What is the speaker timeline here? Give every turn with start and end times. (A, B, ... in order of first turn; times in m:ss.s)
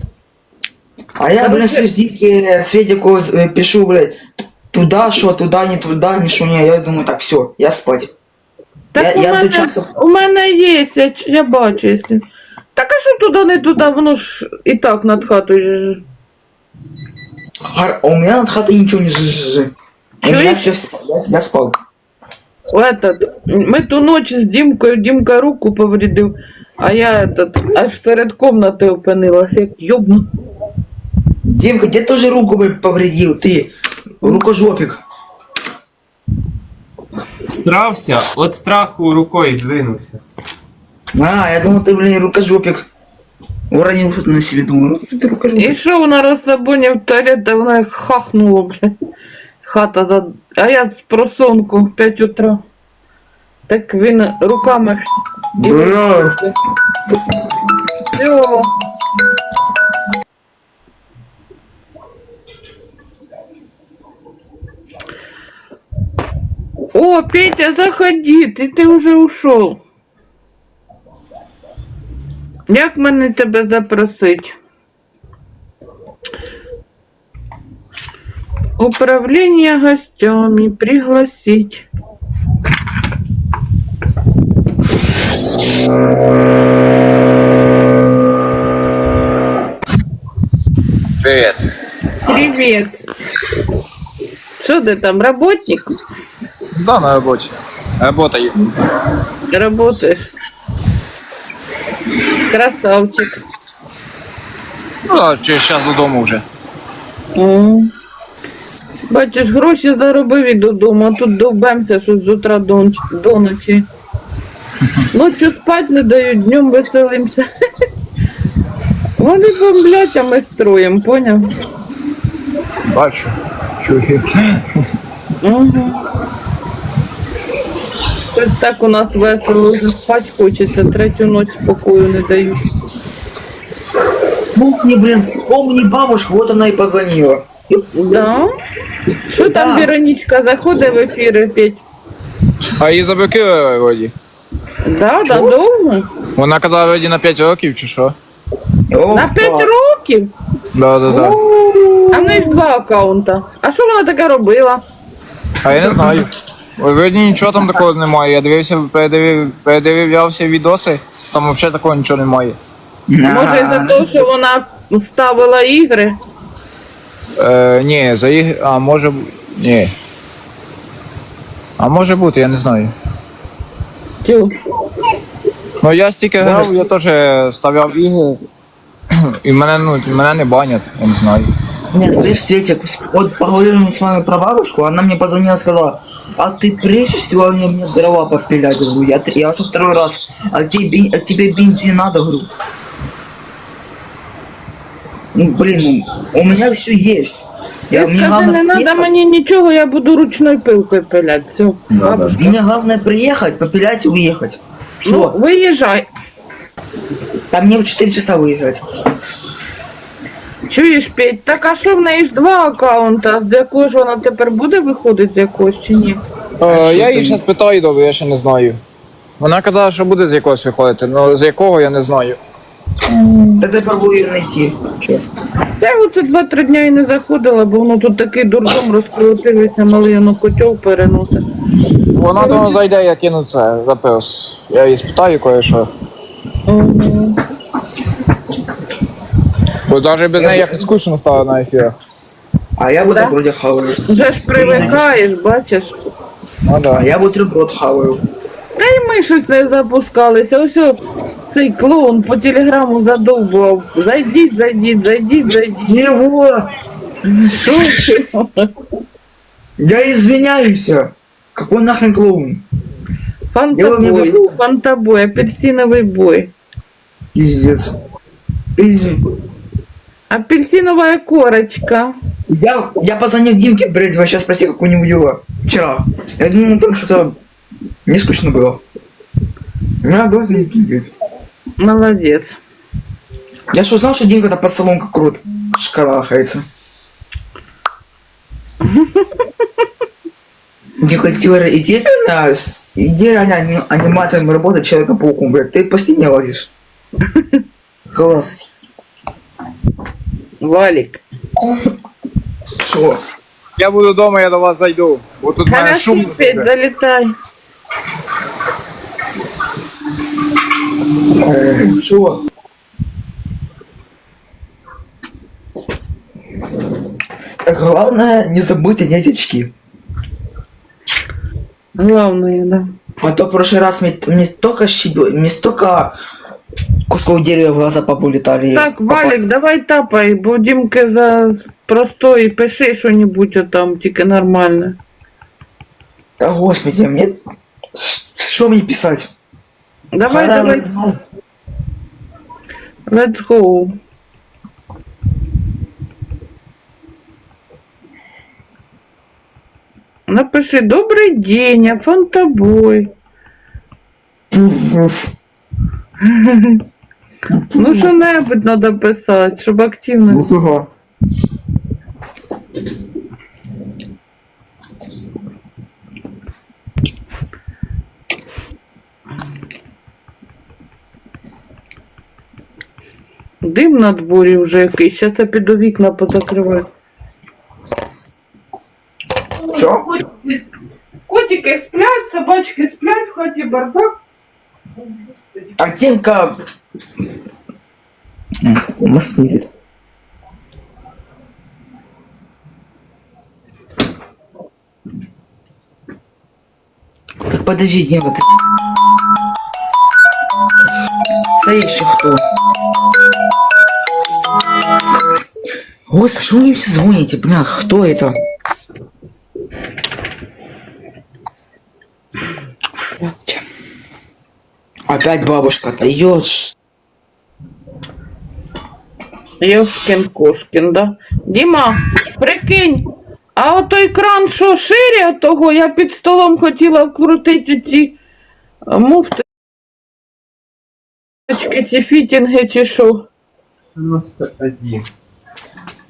0:01.2-0:08.1 A
0:01.4-0:01.8 B
0:08.9-0:12.2 B
0:08.9-0:09.8 A
0:12.8-0:16.0 B
0:17.6-0:21.8 A
0:20.2-0:20.7 B
0:22.7-0:30.3 B
0:31.4-0:35.0 A
0:37.5-0:40.2 C
0:41.1-0:42.9 A
0:43.7-0:45.8 A
0:45.6-0:48.8 B
0:49.6-0:52.6 B
0:53.7-0:56.5 B
0:55.6-0:56.4 A
0:58.1-0:58.7 B
1:06.9-1:09.8 B
1:12.7-1:14.5 B
1:18.8-1:21.8 B
1:31.2-1:31.7 D
1:32.2-1:33.0 B
1:34.6-1:35.9 B
1:36.7-1:38.7 D
1:39.5-1:40.3 B
1:42.5-1:43.4 B
1:45.1-1:46.4 D
1:47.3-1:47.9 B
1:49.1-1:53.9 B
1:55.1-1:57.4 B
1:59.2-2:01.5 B
2:02.9-2:04.3 D
2:05.4-2:06.0 B
2:08.3-2:12.6 B
2:14.5-2:17.9 A
2:17.9-2:18.5 B
2:19.3-2:21.8 B
2:19.4-2:19.9 A
2:22.8-2:24.1 D
2:24.8-2:26.1 B
2:25.2-2:25.6 A
2:26.4-2:28.2 D
2:28.9-2:29.7 A
2:29.1-2:30.3 B
2:30.7-2:31.4 D
2:31.0-2:31.4 B
2:31.6-2:32.4 A
2:32.1-2:34.8 B
2:35.6-2:42.6 D
2:35.8-2:36.2 A
2:43.1-2:44.1 A
2:43.2-2:46.2 B
2:47.4-2:49.9 D
2:51.8-2:52.9 D
2:54.2-2:54.5 B
2:55.8-2:58.4 D
2:56.4-2:56.9 A
2:59.4-3:01.5 D
3:01.9-3:12.5 A
3:15.3-3:19.1 A
3:17.9-3:22.6 B
3:22.0-3:25.4 A
3:25.0-3:26.1 B
3:27.5-3:28.8 A
3:30.7-3:36.2 B
3:36.6-3:37.4 A
3:36.6-3:38.8 D
3:39.4-3:42.4 D
3:43.1-3:43.6 B
3:43.6-3:45.2 A
3:45.8-3:51.4 B
3:52.1-3:55.9 D
3:52.4-3:52.8 B
3:56.7-3:57.4 B
3:59.9-4:02.0 D
4:00.4-4:00.9 A
4:02.8-4:05.0 A
4:03.0-4:03.3 B
4:04.1-4:05.9 B
4:06.6-4:07.0 D
4:06.9-4:08.2 A
4:08.8-4:11.0 B
4:11.5-4:15.9 B
4:15.8-4:16.6 A
4:17.4-4:18.7 B
4:19.8-4:22.6 A
4:23.5-4:26.5 B
4:23.7-4:24.6 A
4:27.3-4:27.9 A
4:28.8-4:29.2 A
4:30.3-4:32.1 B
4:32.5-4:37.4 A
4:38.0-4:38.8 A
4:40.0-4:41.1 A
4:41.8-4:42.6 B
4:43.7-4:46.6 A
4:48.8-4:49.3 B
4:51.0-4:56.7 A
4:57.3-4:57.6 B
4:58.1-4:58.9 A
5:00.6-5:01.2 B
5:02.8-5:03.2 A
5:03.8-5:06.7 D
5:05.6-5:07.3 B
5:11.3-5:12.4 A
5:17.6-5:19.7 A
5:22.0-5:22.9 B
5:23.2-5:26.2 A
5:27.1-5:29.3 A
5:28.7-5:35.0 B
5:36.4-5:37.3 A
5:37.9-5:39.3 A
5:40.1-5:40.8 B
5:40.3-5:41.2 A
5:43.1-5:43.9 B
5:50.3-5:53.1 B
5:54.5-5:55.3 A
5:56.2-5:56.8 B
5:57.5-5:58.1 A
5:57.7-6:00.5 B
6:00.3-6:00.9 A
6:13.6-6:16.8 B
6:19.6-6:20.6 B
6:19.7-6:20.1 A
6:21.3-6:24.1 B
6:25.8-6:26.6 A
6:28.6-6:29.7 A
6:37.4-6:38.5 A
6:41.6-6:42.4 A
6:46.1-6:48.4 A
6:55.1-6:56.7 A
6:59.6-7:03.0 B
7:03.6-7:08.2 B
7:08.9-7:09.4 B
7:11.5-7:13.3 B
7:13.9-7:15.1 C